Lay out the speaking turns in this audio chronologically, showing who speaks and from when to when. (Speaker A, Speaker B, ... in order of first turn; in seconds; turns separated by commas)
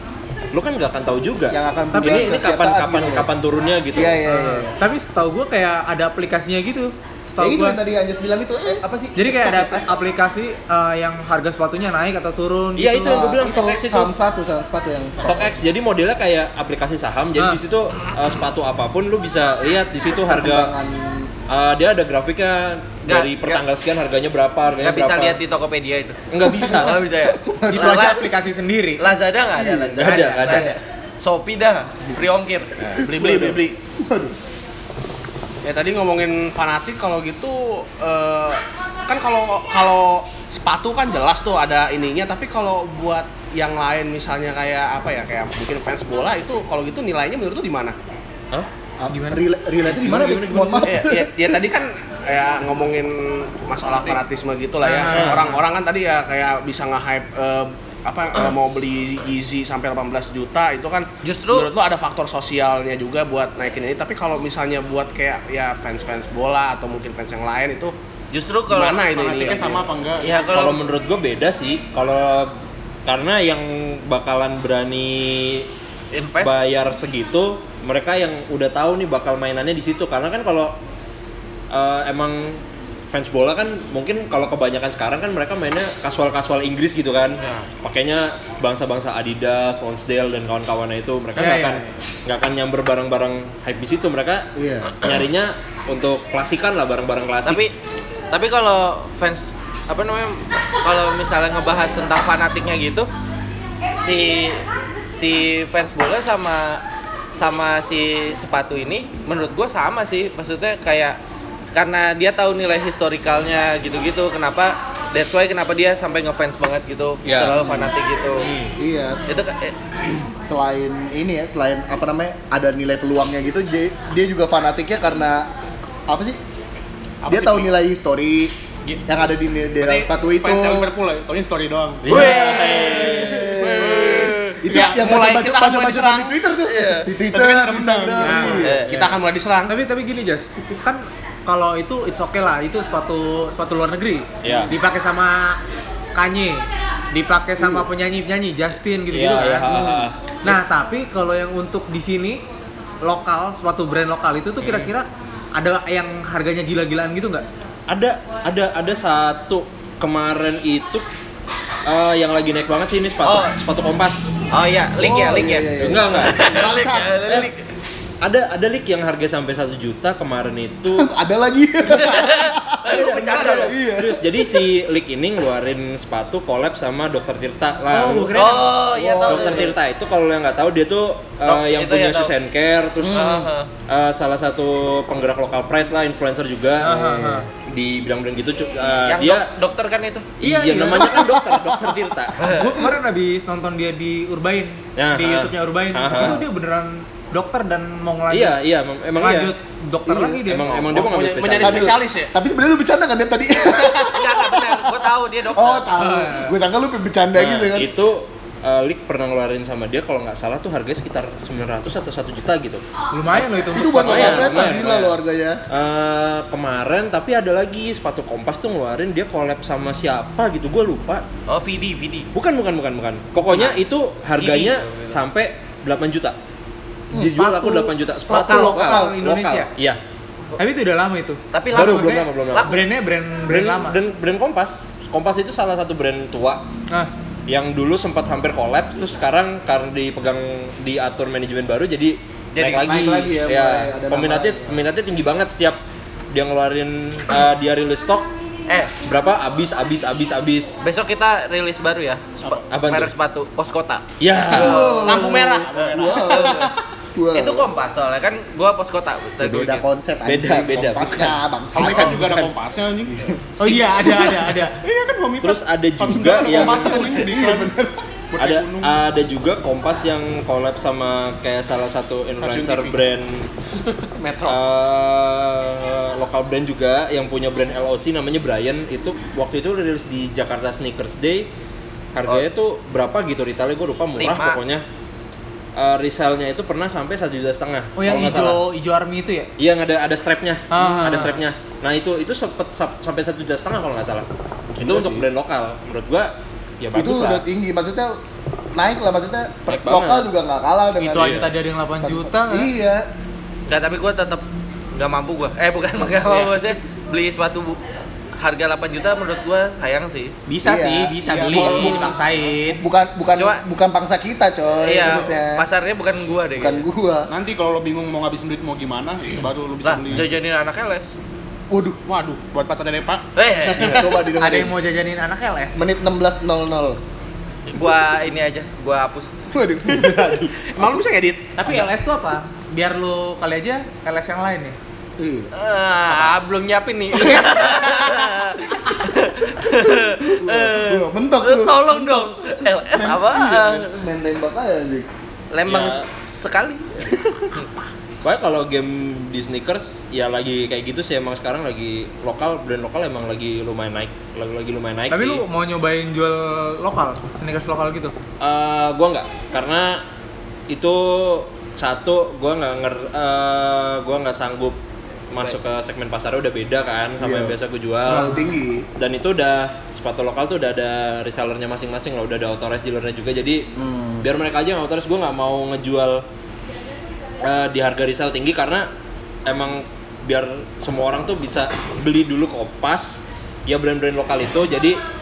Speaker A: 0.5-4.2, Speaker B: 1.5-3.3, Speaker C: 1.9-2.4, Speaker B: 3.9-4.7, Speaker C: 4.3-7.8, Speaker B: 7.4-9.9, Speaker C: 9.2-13.2, Speaker A: 12.8-14.1, Speaker B: 13.0-15.6, Speaker A: 15.2-20.7, Speaker B: 20.1-21.3, Speaker A: 21.5-25.4, Speaker D: 23.1-23.6, Speaker D: 24.8-28.3, Speaker A: 26.3-27.0, Speaker B: 26.4-28.2, Speaker C: 27.7-29.0, Speaker D: 29.0-32.7, Speaker B: 29.6-30.0, Speaker A: 30.0-30.7, Speaker C: 30.0-30.8, Speaker B: 32.9-34.4, Speaker E: 33.0-33.8, Speaker E: 35.6-47.9, Speaker B: 49.0-51.3, Speaker C: 49.1-49.5, Speaker A: 49.8-51.0, Speaker E: 50.9-67.9, Speaker C: 54.8-55.6, Speaker A: 55.1-55.5, Speaker D: 61.2-61.7, Speaker D: 68.3-70.8, Speaker E: 68.7-69.8, Speaker F: 69.1-70.4, Speaker A: 70.5-75.7, Speaker D: 76.1-76.6, Speaker A: 76.4-80.8, Speaker A: 81.7-97.6, Speaker D: 87.4-87.7, Speaker C: 91.3-92.0, Speaker B: 94.5-95.2, Speaker D: 97.4-97.7, Speaker D: 98.3-103.1, Speaker D: 103.9-106.8, Speaker D: 107.3-111.2, Speaker D: 111.7-118.5, Speaker A: 117.2-117.8, Speaker B: 117.6-117.9, Speaker A: 118.3-118.7, Speaker B: 118.8-119.2, Speaker D: 119.3-119.8, Speaker B: 120.4-125.5, Speaker B: 126.1-126.4, Speaker F: 127.2-127.7, Speaker B: 127.3-128.5, Speaker B: 129.1-130.9, Speaker F: 129.8-132.2, Speaker A: 132.1-133.4, Speaker D: 132.1-134.3, Speaker B: 132.1-138.9, Speaker E: 133.6-136.3, Speaker F: 134.0-134.9, Speaker D: 136.7-137.1, Speaker F: 137.3-138.8, Speaker C: 138.2-138.9, Speaker D: 138.6-138.9, Speaker E: 138.8-139.7, Speaker C: 139.7-145.6, Speaker A: 144.4-144.7, Speaker B: 144.4-144.7, Speaker C: 146.1-149.9, Speaker B: 147.6-147.9, Speaker A: 149.1-150.6, Speaker B: 149.7-150.1, Speaker C: 150.4-152.4, Speaker C: 153.0-157.4, Speaker A: 154.6-154.9, Speaker A: 157.9-161.1, Speaker A: 161.8-164.3, Speaker D: 163.2-163.5, Speaker D: 164.5-167.7, Speaker B: 165.0-167.5, Speaker A: 165.8-166.5, Speaker A: 168.2-171.1, Speaker B: 170.9-174.7, Speaker D: 171.9-173.8, Speaker A: 172.9-178.6, Speaker C: 177.9-178.8, Speaker D: 178.3-179.7, Speaker B: 178.9-179.7, Speaker A: 179.3-187.0, Speaker D: 181.4-182.3, Speaker D: 183.0-183.7, Speaker B: 183.1-183.4, Speaker C: 186.8-187.5, Speaker B: 186.9-187.4, Speaker A: 187.7-189.4, Speaker D: 189.1-190.3, Speaker C: 190.4-191.4, Speaker A: 190.4-192.5, Speaker D: 192.4-192.7, Speaker C: 192.5-198.5, Speaker A: 194.9-196.4, Speaker B: 196.1-196.4, Speaker A: 198.3-199.5, Speaker C: 199.2-200.9, Speaker B: 200.0-200.5, Speaker A: 200.4-201.9, Speaker E: 200.9-202.3, Speaker B: 201.6-207.9, Speaker D: 203.9-205.8, Speaker C: 206.0-206.5, Speaker A: 207.3-215.2, Speaker C: 213.1-214.8, Speaker B: 213.7-215.6, Speaker A: 215.7-221.2, Speaker D: 221.5-222.3, Speaker A: 222.3-226.4, Speaker D: 224.3-225.2, Speaker A: 227.1-230.0, Speaker C: 227.2-229.7, Speaker B: 228.3-229.2, Speaker C: 230.6-234.0, Speaker D: 231.5-232.8, Speaker A: 231.7-232.8, Speaker A: 233.5-236.6, Speaker A: 237.5-245.8, Speaker D: 242.5-243.1, Speaker B: 242.7-244.8, Speaker A: 246.3-248.3, Speaker D: 248.7-248.9, Speaker A: 249.0-250.8, Speaker D: 250.8-255.2, Speaker A: 252.7-253.1, Speaker A: 254.2-255.0, Speaker B: 254.5-257.7, Speaker E: 254.9-255.7, Speaker F: 255.4-256.6, Speaker D: 255.8-256.6, Speaker D: 257.3-259.8, Speaker B: 259.4-262.4, Speaker A: 260.2-261.4, Speaker F: 261.7-267.8, Speaker B: 263.1-263.4, Speaker C: 263.6-264.8, Speaker A: 265.4-267.2, Speaker B: 266.1-268.0, Speaker F: 268.3-269.0, Speaker A: 268.4-273.5, Speaker F: 272.4-273.0, Speaker E: 274.0-274.5, Speaker A: 274.4-281.5, Speaker A: 282.1-284.8, Speaker D: 284.2-284.6, Speaker A: 285.8-288.6, Speaker C: 287.9-289.5, Speaker A: 289.6-297.4, Speaker C: 290.7-291.4, Speaker B: 294.8-295.2, Speaker B: 296.9-298.2, Speaker B: 298.7-301.4, Speaker A: 299.7-300.3, Speaker C: 301.0-302.7, Speaker A: 301.2-301.5, Speaker B: 302.0-303.1, Speaker D: 303.7-307.8, Speaker D: 308.4-310.3, Speaker C: 310.5-312.8, Speaker B: 310.6-315.6, Speaker F: 311.2-312.4, Speaker D: 314.8-316.9, Speaker B: 316.5-317.3, Speaker F: 317.3-320.3, Speaker D: 319.8-321.1, Speaker B: 321.7-322.0, Speaker E: 322.1-322.4, Speaker F: 322.4-323.2, Speaker D: 323.4-324.2, Speaker B: 323.7-324.7, Speaker C: 324.4-325.9, Speaker B: 325.8-327.0, Speaker D: 327.7-329.5, Speaker B: 329.5-330.6, Speaker E: 330.1-331.5, Speaker C: 331.6-334.8, Speaker B: 335.2-335.5, Speaker D: 335.5-344.0, Speaker B: 340.2-345.1, Speaker D: 345.5-347.7, Speaker A: 345.7-346.0, Speaker A: 348.2-355.4, Speaker C: 355.1-358.1, Speaker A: 358.4-360.0, Speaker A: 360.7-364.8, Speaker A: 365.3-368.4, Speaker B: 367.2-368.9, Speaker C: 368.1-368.5, Speaker A: 369.0-373.7, Speaker B: 373.7-374.3, Speaker A: 374.2-376.2, Speaker A: 377.4-378.9, Speaker A: 379.4-385.0